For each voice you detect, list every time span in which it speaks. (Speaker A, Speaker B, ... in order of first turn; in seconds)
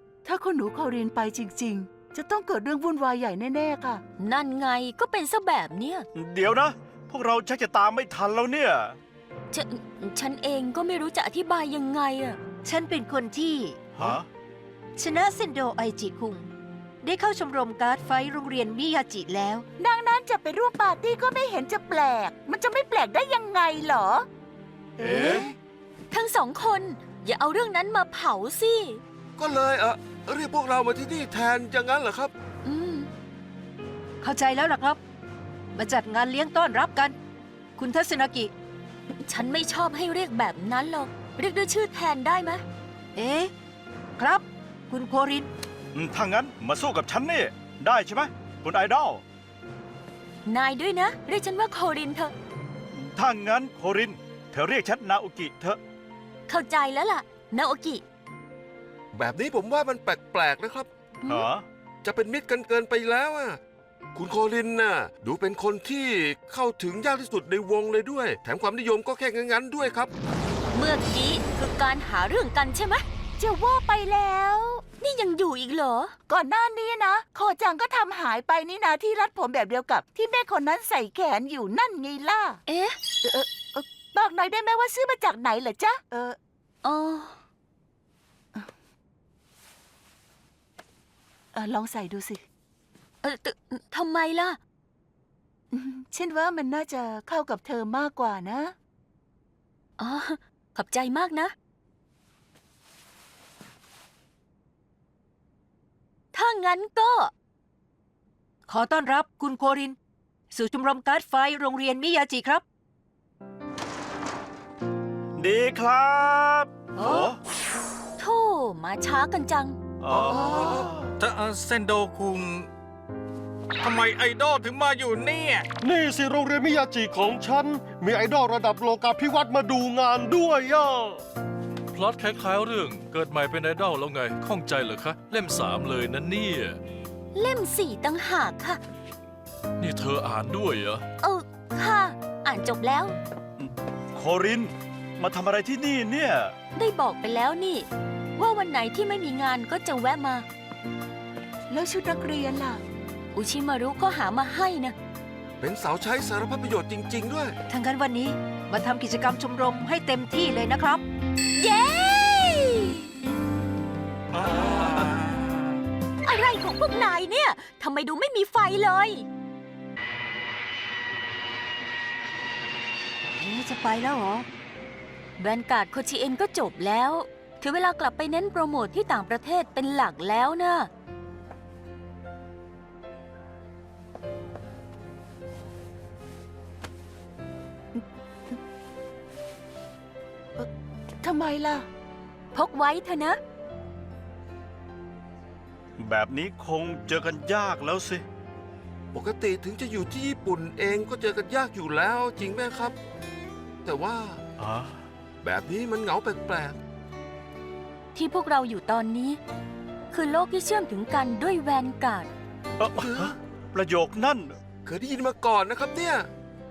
Speaker A: 0.2-4.0, 19.8-24.2, 25.0-25.5, 73.4-74.8, 76.3-82.6, 83.2-86.4, 91.5-92.4, 95.7-98.7, 151.7-152.8, 191.2-191.8
Speaker B: 4.2-6.0, 9.5-12.4, 26.1-29.0, 32.6-33.1, 39.1-42.6, 50.4-52.3, 56.5-58.0, 70.7-73.0, 75.0-76.1, 82.7-83.0, 86.8-87.4, 93.2-94.6, 100.0-101.5, 106.3-107.3, 117.0-117.3, 118.2-119.8, 137.3-138.8, 141.2-143.1, 146.7-150.4, 153.3-154.9, 161.5-163.1, 166.2-169.2, 175.4-180.9, 192.5-193.4, 208.1-209.4, 210.1-212.3
Speaker C: 6.1-9.0, 14.0-14.2, 25.0-25.4, 45.9-49.2, 52.9-55.8, 61.3-61.6, 115.3-117.4, 120.0-120.5, 143.6-146.5, 196.0-198.2, 204.6-205.0, 212.8-214.6
Speaker D: 12.6-13.9, 15.0-16.5, 17.0-19.6, 34.2-35.0, 35.7-37.1, 37.8-38.5, 43.1-43.5, 44.2-45.5, 108.7-110.0, 110.5-112.6, 157.7-161.0, 173.4-174.4
Speaker E: 29.4-32.3, 59.1-60.9, 62.0-63.6, 64.1-70.1, 120.1-120.8, 155.6-157.6, 199.1-203.0, 203.8-204.4, 205.4-206.8, 212.9-213.3, 214.8-216.3
Speaker F: 120.4-122.7, 123.8-125.7
Speaker G: 125.8-131.2
Speaker H: 131.9-136.8, 139.8-141.0